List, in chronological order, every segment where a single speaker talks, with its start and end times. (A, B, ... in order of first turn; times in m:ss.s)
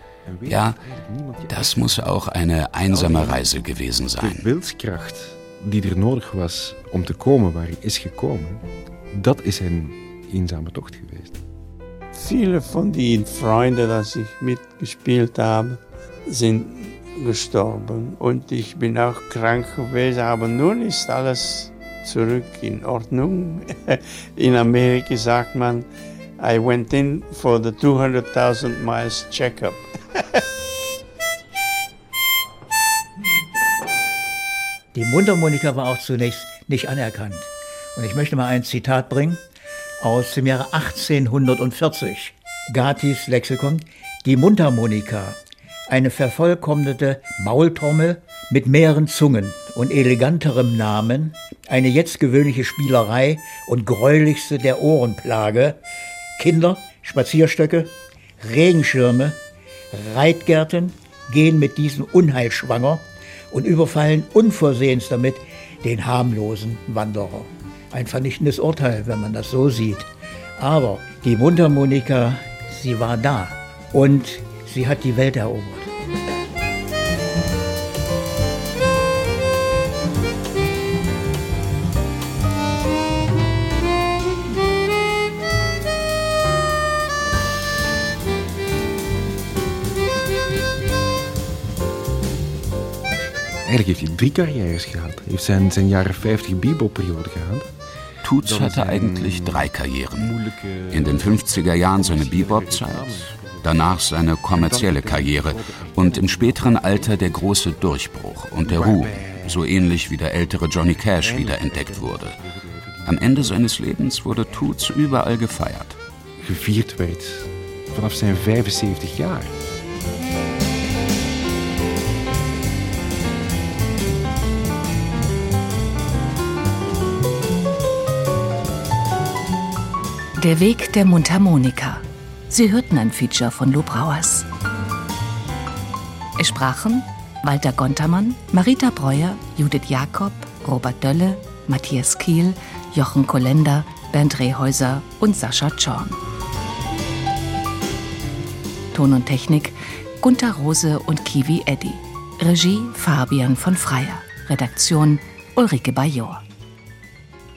0:00.2-0:02.3 A
0:00.4-0:00.8 B
0:01.5-0:04.5 B
0:02.9-0:03.6 A
0:04.2-0:08.6 A
0:09.1-0:11.3 A
0:12.1-0:25.9 C
0:26.4-0:30.2 C
0:34.9-0:39.4 D
0:40.0-0:45.4 D
0:45.9-0:55.8 D
0:56.4-0:59.4 D
0:59.9-1:10.1 D
1:10.6-1:15.9 D
1:33.6-1:37.7 A
1:38.2-1:52.4 B
1:38.4-1:43.8 A
1:44.5-1:47.4 A
1:48.6-1:49.6 A
1:51.0-1:53.7 A
1:53.0-1:56.0 B
1:54.5-1:55.6 A
1:56.4-1:59.5 A
2:10.4-2:14.5 E
2:16.4-2:26.2 E
2:28.9-2:36.4 E